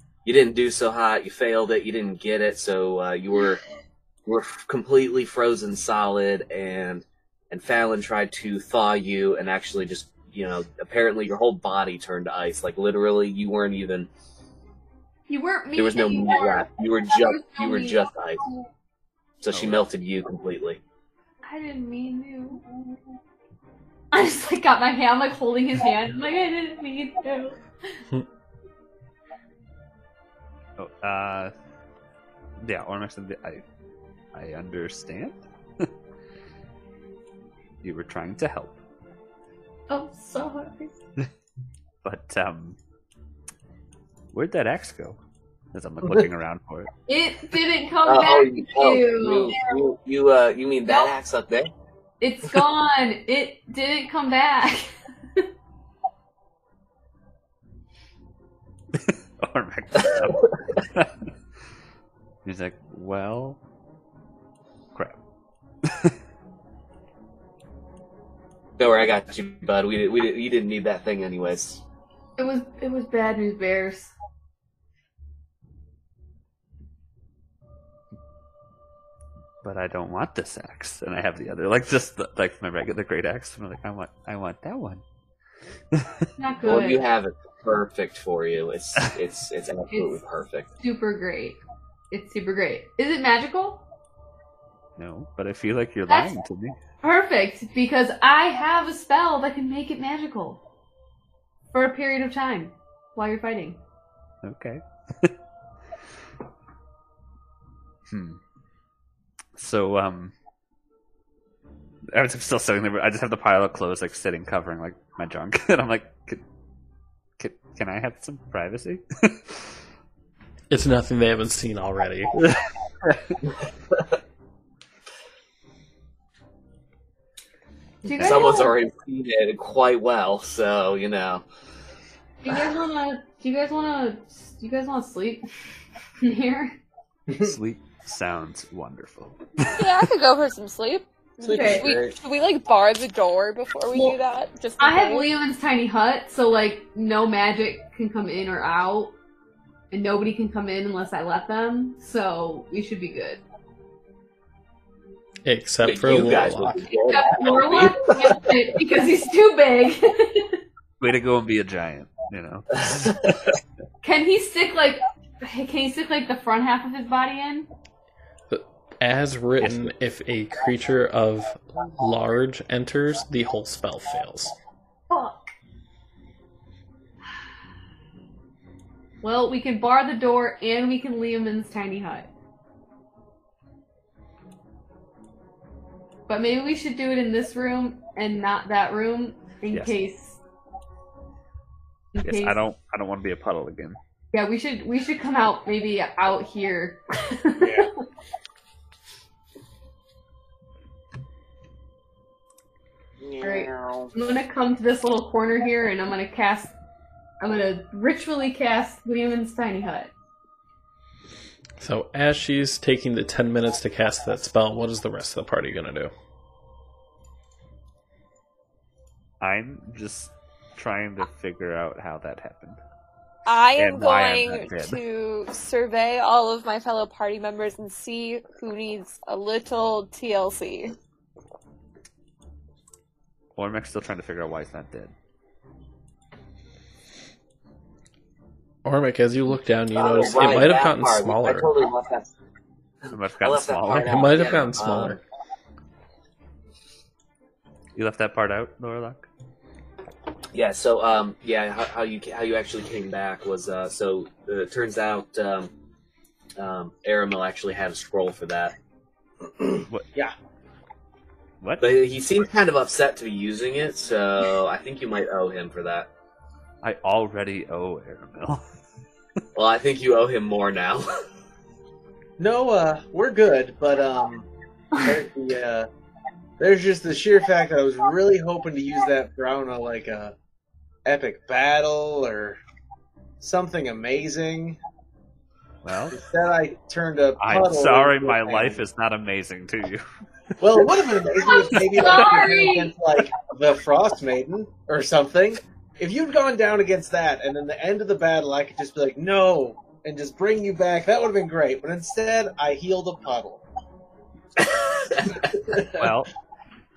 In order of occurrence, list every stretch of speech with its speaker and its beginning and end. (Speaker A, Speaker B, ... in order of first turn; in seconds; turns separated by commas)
Speaker A: 0.2-3.6, Speaker A: 4.2-14.1, Speaker B: 15.3-18.0, Speaker A: 15.8-18.4, Speaker A: 19.4-20.8, Speaker C: 19.5-19.8, Speaker B: 21.4-22.6, Speaker B: 24.1-28.0, Speaker C: 30.8-31.5, Speaker C: 32.6-33.6, Speaker C: 34.3-35.9, Speaker C: 37.8-38.8, Speaker B: 39.9-41.0, Speaker C: 42.0-42.8, Speaker C: 44.3-45.2, Speaker C: 45.7-46.9, Speaker B: 47.1-49.5, Speaker A: 48.0-51.7, Speaker B: 52.2-55.5, Speaker C: 59.4-61.1, Speaker A: 60.1-60.4, Speaker C: 62.4-63.6, Speaker A: 68.8-71.8, Speaker B: 72.4-74.1, Speaker C: 79.6-85.0, Speaker C: 85.9-86.3, Speaker B: 86.4-87.0, Speaker A: 86.6-90.7, Speaker B: 89.9-90.2, Speaker B: 90.8-91.6, Speaker B: 92.1-93.8, Speaker C: 95.0-96.8, Speaker B: 97.0-100.6, Speaker B: 101.7-103.8, Speaker C: 104.4-105.3, Speaker C: 108.1-108.4, Speaker C: 109.5-110.3, Speaker C: 112.1-116.4, Speaker C: 117.4-119.6, Speaker D: 120.7-122.4, Speaker C: 122.4-123.3, Speaker B: 128.0-128.7, Speaker A: 128.1-131.4, Speaker C: 128.2-128.4, Speaker B: 132.4-135.4, Speaker B: 136.2-136.8, Speaker C: 137.4-139.8, Speaker E: 139.7-145.3, Speaker F: 141.4-142.2, Speaker B: 141.5-141.9, Speaker B: 144.8-149.1, Speaker B: 149.9-153.4, Speaker D: 155.4-156.9, Speaker A: 155.8-158.5, Speaker B: 157.0-160.6, Speaker C: 161.0-163.4, Speaker A: 162.9-163.2, Speaker B: 164.0-167.7, Speaker D: 168.5-174.5, Speaker C: 169.6-169.9, Speaker B: 175.1-175.4, Speaker B: 179.2-182.3, Speaker B: 186.3-190.4, Speaker C: 189.7-190.0, Speaker B: 192.1-192.6, Speaker C: 192.2-194.0, Speaker B: 194.3-197.9, Speaker F: 197.6-197.9, Speaker F: 203.2-204.1, Speaker B: 203.4-206.7, Speaker B: 207.4-210.1, Speaker D: 211.8-216.1, Speaker C: 219.4-222.8, Speaker E: 223.4-230.9, Speaker C: 223.8-225.0, Speaker C: 233.5-235.1, Speaker D: 238.8-241.7, Speaker A: 239.9-242.3, Speaker A: 243.1-245.2, Speaker C: 243.1-244.2, Speaker D: 243.9-245.2, Speaker C: 247.9-249.2, Speaker A: 250.5-255.7, Speaker A: 256.6-258.7, Speaker F: 259.6-260.3, Speaker C: 261.6-261.9, Speaker A: 261.8-266.1, Speaker C: 266.8-268.6, Speaker A: 269.5-271.2, Speaker F: 272.4-275.9, Speaker F: 276.6-280.3, Speaker F: 281.0-282.6, Speaker F: 283.4-284.8, Speaker C: 285.8-286.2, Speaker F: 286.1-288.8, Speaker C: 287.4-290.0, Speaker F: 290.6-303.6, Speaker C: 290.6-291.1, Speaker B: 291.4-292.9, Speaker C: 291.8-292.1, Speaker F: 305.7-306.1, Speaker C: 305.9-306.3